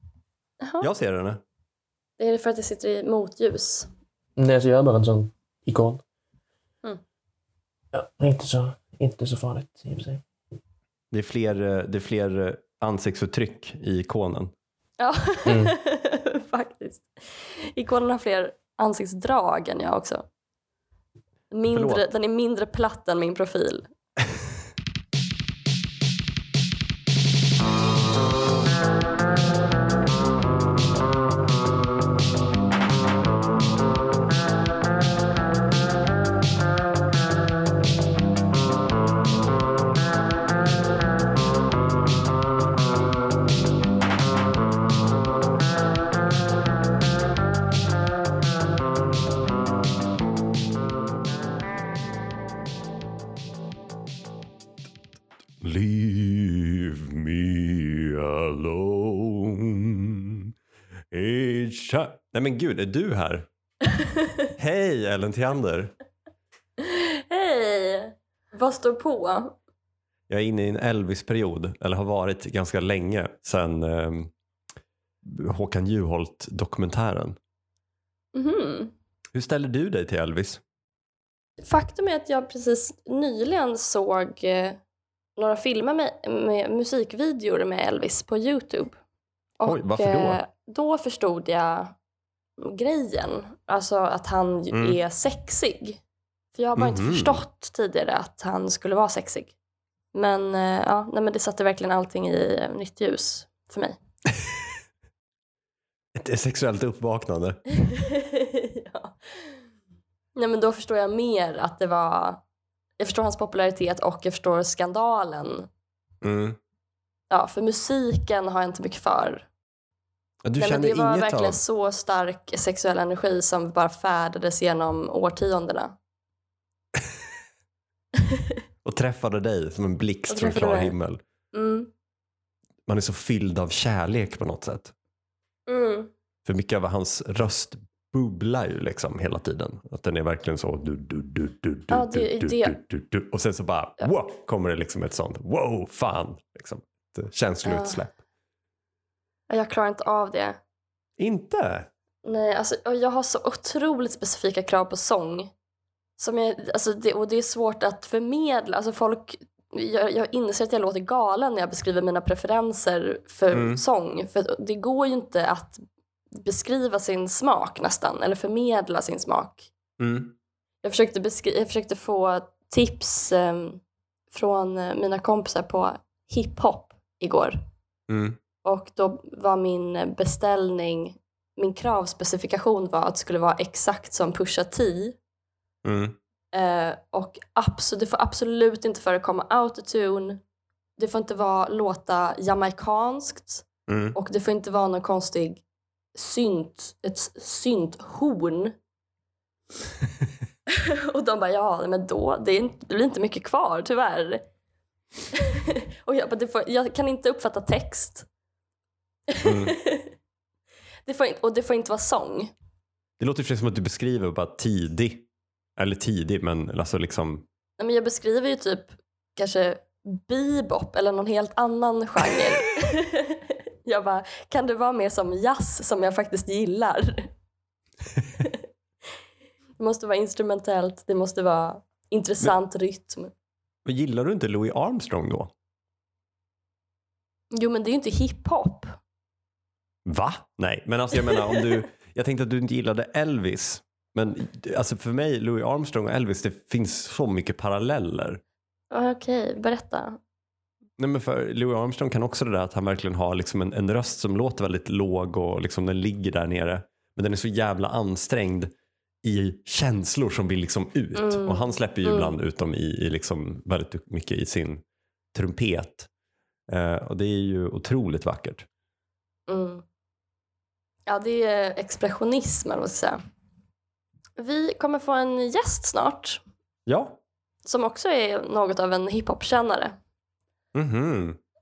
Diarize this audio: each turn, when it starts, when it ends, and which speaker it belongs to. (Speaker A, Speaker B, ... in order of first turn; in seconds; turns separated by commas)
Speaker A: 0.6-0.9, Speaker B: 0.8-1.4, Speaker A: 2.2-3.9, Speaker C: 4.4-6.0, Speaker C: 7.9-10.2, Speaker B: 11.1-14.5, Speaker A: 15.0-20.2, Speaker C: 15.5-15.7, Speaker A: 21.5-23.9, Speaker B: 21.7-22.0, Speaker B: 55.6-60.5, Speaker B: 61.1-63.5, Speaker A: 63.9-64.3, Speaker B: 64.6-65.9, Speaker A: 66.8-69.5, Speaker B: 70.3-74.3, Speaker B: 75.2-77.4, Speaker A: 78.3-78.9, Speaker B: 79.3-80.6, Speaker A: 81.6-84.8, Speaker A: 85.4-89.0, Speaker A: 89.6-92.0, Speaker B: 89.7-90.4, Speaker A: 92.6-96.0, Speaker B: 94.7-95.0, Speaker A: 96.5-99.5, Speaker B: 96.8-97.4, Speaker A: 100.1-104.0, Speaker B: 106.2-107.6, Speaker A: 107.8-109.6, Speaker A: 110.4-112.4, Speaker A: 113.0-115.7, Speaker B: 116.2-116.6, Speaker A: 117.3-119.5, Speaker B: 120.4-121.6, Speaker A: 120.6-126.0, Speaker B: 128.8-131.2, Speaker A: 130.3-130.9, Speaker A: 131.5-131.9, Speaker B: 132.9-134.9, Speaker A: 135.7-136.1, Speaker B: 136.4-148.1, Speaker A: 141.9-142.8, Speaker A: 147.6-148.0, Speaker A: 149.5-150.6, Speaker B: 151.2-151.9, Speaker A: 152.2-155.5, Speaker A: 156.2-165.8, Speaker B: 163.5-163.8, Speaker A: 166.3-169.7, Speaker B: 170.0-170.3, Speaker A: 170.8-177.6, Speaker B: 178.1-178.4, Speaker A: 178.6-185.2, Speaker B: 185.8-186.2, Speaker A: 186.5-190.4, Speaker A: 191.0-195.6, Speaker B: 193.9-194.2, Speaker A: 196.2-198.8, Speaker A: 200.7-204.4, Speaker A: 205.3-208.3, Speaker A: 209.3-210.1, Speaker B: 209.4-209.8, Speaker A: 211.1-212.5, Speaker B: 213.2-217.4, Speaker A: 217.8-227.3, Speaker A: 229.8-233.3, Speaker B: 233.9-235.5, Speaker A: 237.5-239.0, Speaker B: 240.1-248.4, Speaker A: 248.9-250.2, Speaker B: 251.0-258.7, Speaker B: 259.2-264.8, Speaker A: 261.1-262.3, Speaker B: 265.3-266.1, Speaker B: 266.7-268.7, Speaker A: 269.5-269.8, Speaker A: 271.1-273.2, Speaker A: 274.4-276.4, Speaker B: 276.9-277.2, Speaker A: 277.6-280.0, Speaker B: 280.8-281.4